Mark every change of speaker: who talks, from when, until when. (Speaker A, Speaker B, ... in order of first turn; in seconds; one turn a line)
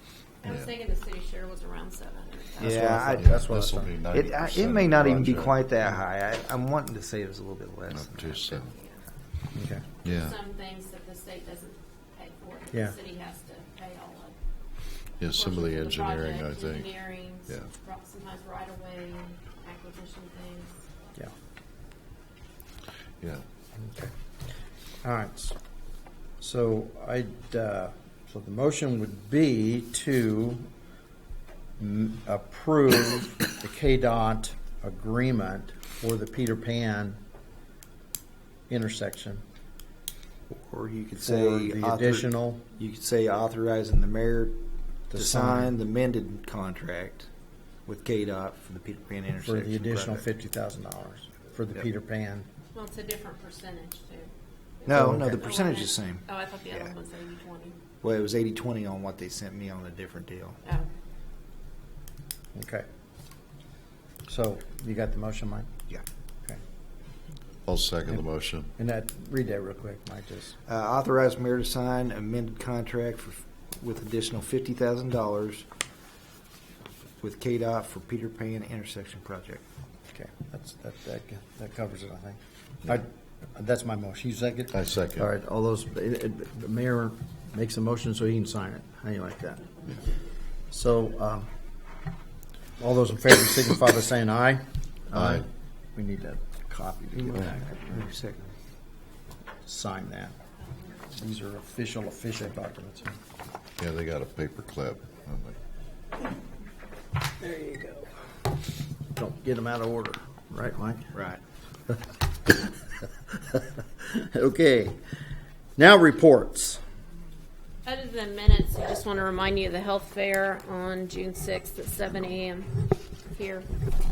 Speaker A: 0.4-2.8
Speaker B: 0.4-0.7
Speaker C: 2.6-3.4
Speaker D: 2.6-3.9
Speaker B: 3.1-5.5
Speaker C: 4.1-8.6
Speaker B: 7.9-8.7
Speaker A: 8.7-9.0
Speaker D: 9.5-9.8
Speaker B: 10.0-10.4
Speaker A: 10.0-14.4
Speaker B: 15.2-17.7
Speaker A: 15.2-20.8
Speaker D: 23.8-24.1
Speaker D: 25.0-25.6
Speaker D: 26.4-30.7
Speaker D: 31.8-37.2
Speaker D: 38.7-39.4
Speaker C: 40.5-44.6
Speaker D: 41.2-42.7
Speaker D: 45.1-45.7
Speaker C: 45.1-47.3
Speaker C: 47.9-50.2
Speaker D: 49.4-52.5
Speaker A: 52.7-54.3
Speaker C: 54.8-56.9
Speaker D: 54.9-55.5
Speaker A: 55.3-57.7
Speaker C: 58.0-60.6
Speaker D: 62.5-62.9
Speaker D: 64.3-65.7
Speaker B: 67.7-68.7
Speaker D: 68.8-70.5
Speaker C: 70.7-75.7
Speaker C: 77.2-79.6
Speaker D: 80.1-89.7
Speaker B: 84.7-85.3
Speaker D: 90.7-91.5
Speaker D: 92.8-98.1
Speaker B: 95.1-95.5
Speaker C: 97.1-98.5
Speaker D: 99.6-100.3
Speaker D: 101.0-103.2
Speaker B: 103.8-105.6
Speaker D: 107.4-108.0
Speaker D: 109.1-111.1
Speaker C: 111.1-111.4
Speaker D: 113.5-115.0
Speaker D: 115.8-116.8
Speaker A: 117.8-123.7